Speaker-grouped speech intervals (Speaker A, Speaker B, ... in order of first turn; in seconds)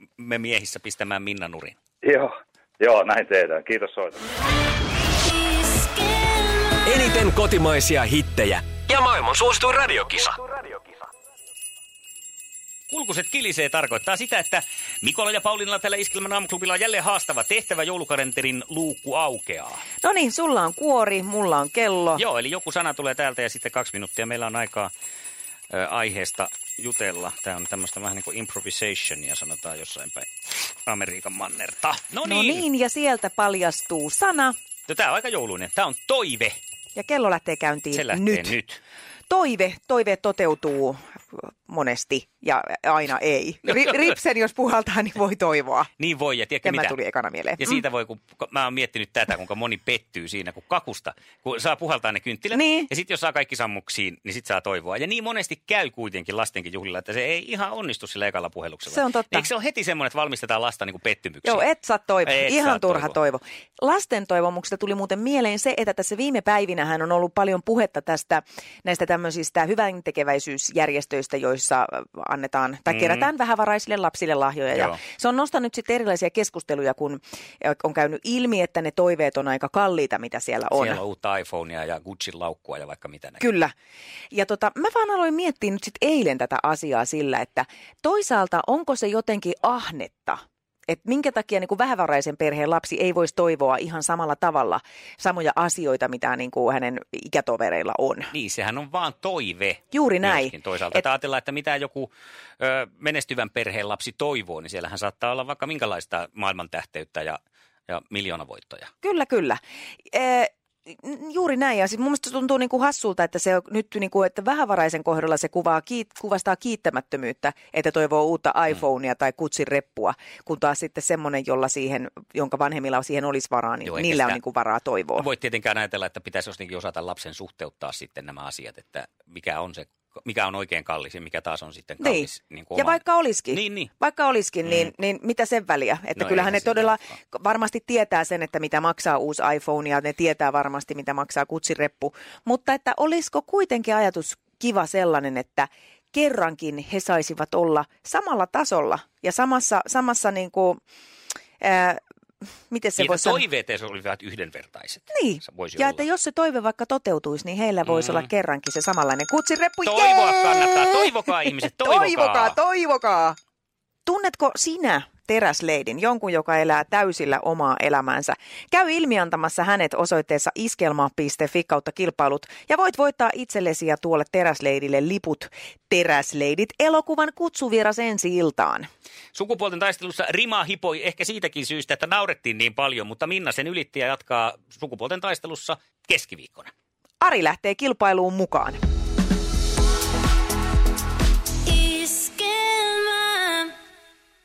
Speaker A: 0.2-1.8, 12.9-19.8, 22.2-24.9, 25.7-30.3, 30.9-32.6, 34.9-36.6, 37.9-38.8, 46.0-47.0, 47.6-61.6, 62.2-63.1, 72.9-73.3, 80.7-83.5, 98.3-108.9, 123.8-124.4, 125.2-133.9, 134.6-134.9, 136.2-137.1, 153.0-156.0, 157.8-158.3, 159.8-162.5, 179.3-186.7
Speaker B: 2.0-4.2
Speaker C: 6.9-10.3
Speaker D: 20.0-22.2, 32.2-34.5, 37.0-38.5, 39.3-45.9, 46.6-47.7, 52.5-52.9, 58.9-59.5, 61.4-81.0, 83.4-83.7, 84.3-98.3, 99.9-101.0, 109.0-109.6, 110.1-125.2, 132.0-150.8, 151.6-152.0, 152.7-153.4, 155.1-161.1, 161.8-163.4, 164.1-178.9, 187.2-188.8
Speaker E: 191.7-193.7